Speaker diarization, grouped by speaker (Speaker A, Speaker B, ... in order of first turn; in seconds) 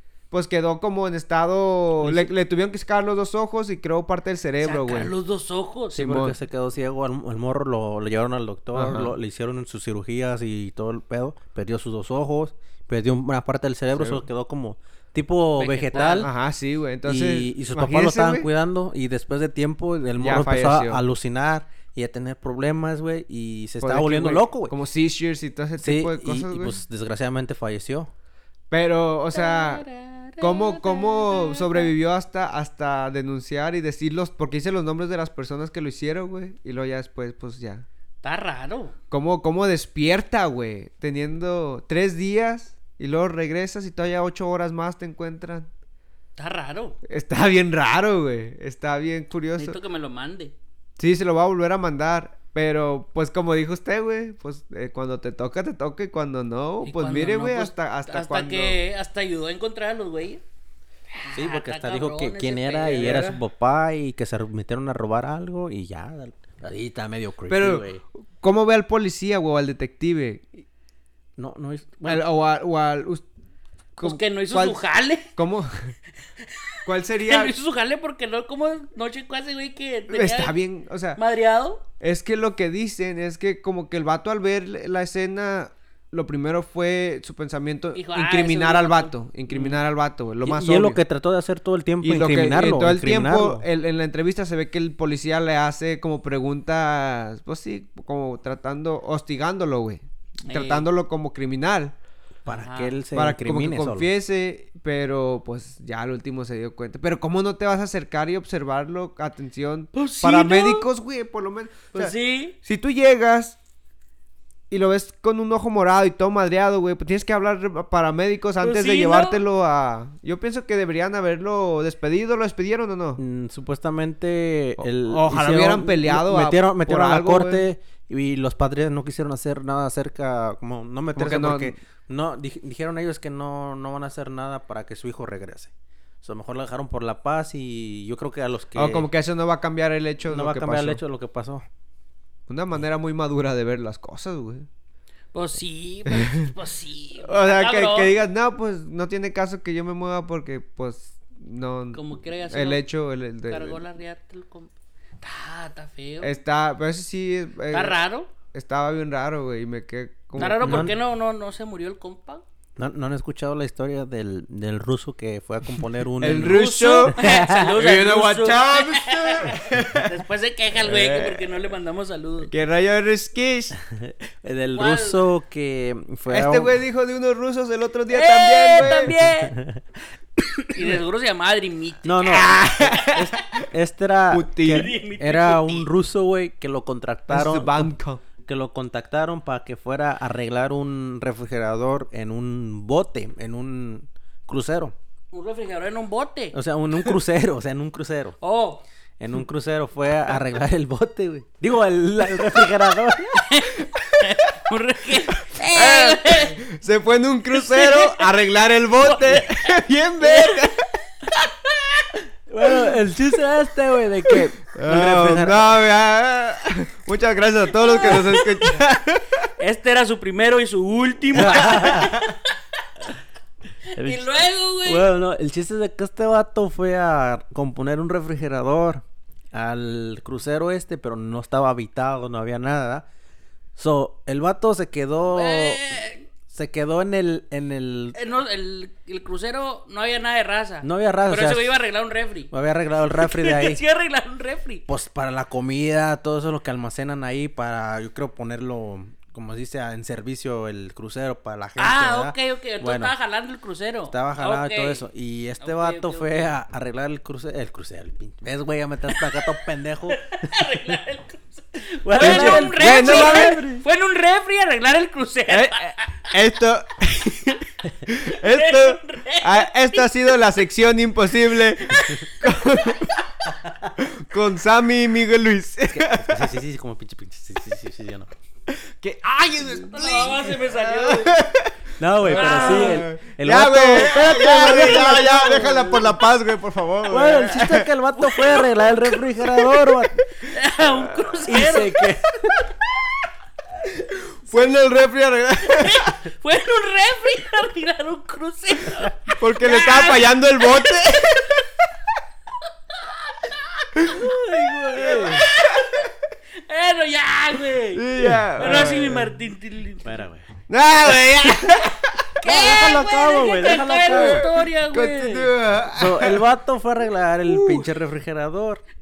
Speaker A: 0.3-5.1, 6.0-6.3, 8.7-9.2, 13.9-14.2, 15.9-18.5, 20.2-21.0, 23.8-26.8, 28.7-29.8, 30.4-37.9, 39.1-45.7, 47.0-49.8, 51.0-58.8, 63.0-63.4, 67.5-67.8, 68.4-70.5, 72.1-73.2, 74.0-74.8, 75.3-75.9, 76.8-77.5, 80.1-81.2, 82.0-91.0, 92.0-101.9, 103.1-113.6, 114.7-123.2, 124.8-127.6, 131.1-131.7, 138.8-141.0, 142.5-144.7, 146.1-146.5, 147.2-153.8, 156.2-158.0, 158.5-160.9, 166.2-170.1, 170.8-171.7, 172.5-173.8, 176.3-179.2, 182.3-183.7, 184.3-184.9, 187.3-188.2, 203.9-204.2, 205.5-210.9, 214.7-219.5, 262.2-263.6, 265.5-273.2, 274.0-276.5, 278.7-287.9, 290.9-291.3, 293.9-296.2, 299.3-301.9, 305.1-306.1, 307.9-309.3, 310.7-312.4, 314.1-316.4, 317.5-317.8
Speaker B: 2.0-2.3, 4.6-6.0, 15.6-16.3, 29.3-31.9, 38.2-39.0, 46.4-47.0, 49.6-50.5, 56.8-60.4, 61.2-63.3, 74.0-75.3, 77.3-80.5, 81.2-81.8, 87.9-89.8, 100.4-100.9, 102.5-103.0, 109.9-110.9, 111.9-112.5, 118.6-119.4, 145.3-148.1, 151.9-152.8, 153.5-154.7, 155.2-156.4, 157.7-158.3, 160.4-162.4, 166.4-172.5, 174.7-175.2, 178.1-179.6, 180.7-182.7, 184.6-185.9, 195.3-197.1, 198.4-198.8, 203.3-206.6, 207.5-208.4, 209.0-211.4, 218.0-218.8, 219.6-222.5, 223.9-225.1, 235.3-236.2, 238.1-242.5, 243.1-244.8, 251.8-255.0, 255.6-256.5, 259.1-259.5, 260.1-266.3, 268.3-270.5, 279.6-281.4, 282.3-283.1, 285.6-286.1, 288.3-288.7, 290.4-292.1, 295.6-301.5, 304.1-310.1, 311.2-311.9, 312.4-315.5
Speaker C: 5.9-16.3, 17.1-24.7, 25.8-28.1, 61.3-68.0, 71.4-72.2, 90.4-93.6, 102.4-104.1, 123.2-135.7, 136.2-139.1, 140.3-141.6, 160.4-160.9, 162.8-166.6, 167.2-167.7, 173.8-176.8, 178.8-179.8, 182.0-187.9, 188.4-194.9, 196.5-198.4, 199.2-203.5, 212.5-215.8, 221.3-222.2, 223.9-224.2, 224.8-233.1, 233.8-235.8, 236.5-238.2, 240.8-241.8, 242.5-243.8, 244.9-253.1, 254.1-261.0, 262.0-263.8, 275.9-278.3, 282.0-285.9, 287.1-290.2, 291.5-292.6, 304.1-305.4, 310.0-310.5, 312.4-314.5, 315.9-318.8